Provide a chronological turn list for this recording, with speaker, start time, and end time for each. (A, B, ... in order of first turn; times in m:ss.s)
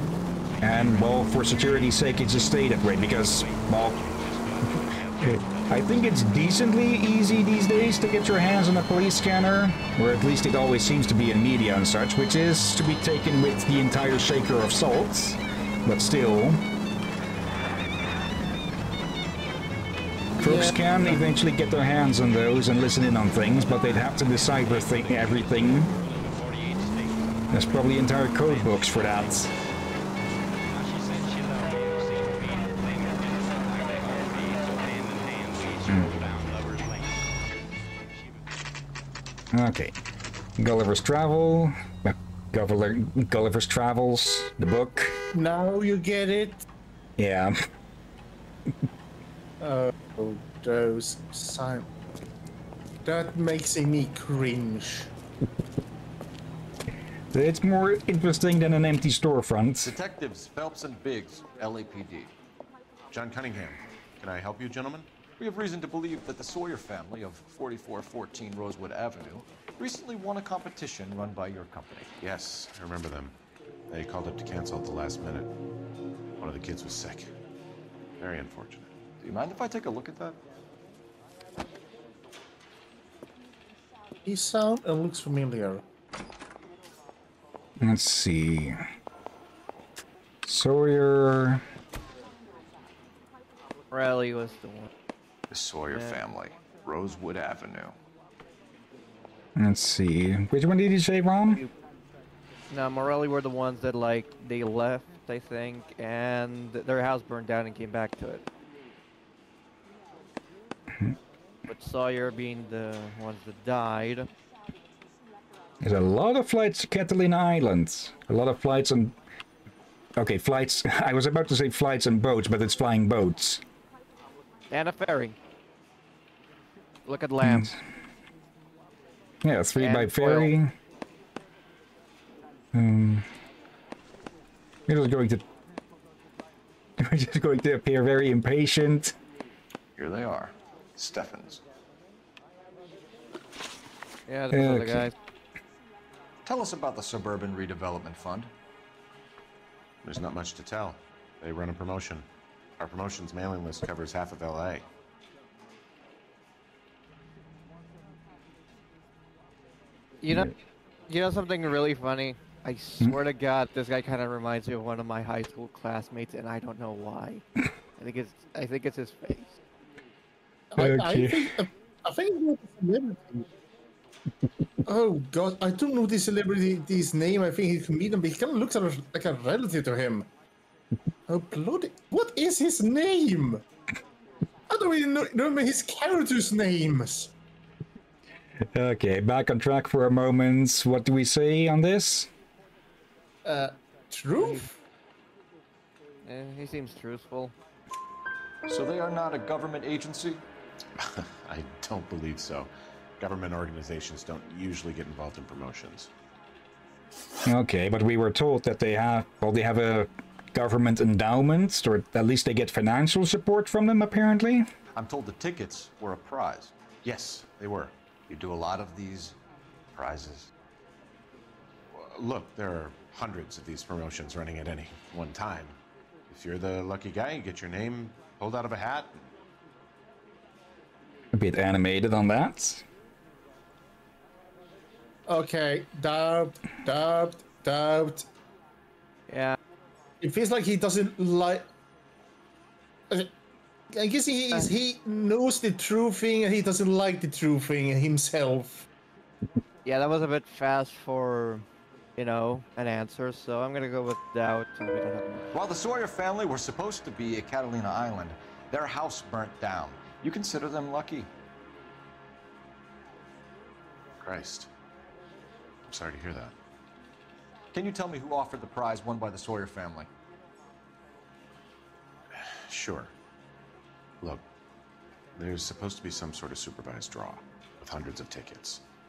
0:00.6-0:04.0 A
0:05.2-0:16.6 A
0:20.4-0:25.9 A
0:20.4-0:21.2 B
0:27.5-0:29.5 A
0:35.9-0:36.1 A
0:39.5-0:40.0 A
0:40.6-0:45.2 A
0:45.3-0:46.6 B
0:47.2-0:47.6 A
0:49.6-0:51.9 B
0:53.0-0:55.1 B
0:57.3-0:59.9 A
0:59.8-1:02.4 C
1:03.1-1:05.1 D
1:05.4-1:12.1 C
1:12.2-1:13.4 D
1:13.9-1:15.5 D
1:16.4-1:17.3 D
1:18.2-1:18.9 D
1:19.2-1:20.4 C
1:24.2-1:25.8 B
1:27.8-1:28.8 A
1:30.4-1:31.6 A
1:33.9-1:34.9 E
1:35.5-1:38.0 C
1:39.6-1:41.6 A
1:42.7-1:48.4 E
1:51.7-1:54.3 E
1:55.8-1:59.2 A
2:00.2-2:03.6 A
2:04.7-2:05.4 E
2:07.1-2:07.7 E
2:07.4-2:07.8 A
2:09.4-2:10.7 A
2:09.8-2:10.5 E
2:12.7-2:13.3 A
2:14.9-2:15.4 A
2:17.0-2:19.2 A
2:20.0-2:21.6 C
2:24.3-2:25.1 E
2:24.5-2:25.1 A
2:26.4-2:28.5 C
2:30.0-2:32.2 D
2:32.8-2:34.9 D
2:40.2-2:40.5 E
2:41.1-2:47.4 E
2:48.0-2:49.6 E
2:50.7-2:53.5 B
2:50.8-2:51.5 A
2:54.9-3:00.3 B
3:01.3-3:03.6 B
3:04.7-3:07.3 B
3:08.7-3:12.3 A
3:13.4-3:14.8 B
3:14.4-3:14.7 E
3:16.2-3:17.6 E
3:18.7-3:20.4 C
3:21.0-3:26.1 D
3:27.5-3:34.7 A
3:34.9-3:36.8 C
3:37.0-3:37.9 D
3:38.3-3:39.4 C
3:40.0-3:40.5 C
3:41.9-3:45.8 D
3:46.3-3:49.3 D
3:51.3-3:52.8 A
3:55.3-3:58.3 B
3:59.3-3:59.6 E
4:00.2-4:01.7 B
4:03.9-4:08.9 B
4:09.8-4:11.6 E
4:12.2-4:15.5 E
4:15.5-4:21.3 C
4:24.2-4:24.7 D
4:25.9-4:26.6 D
4:27.7-4:30.1 C
4:32.3-4:33.1 D
4:34.2-4:34.5 D
4:35.4-4:38.8 D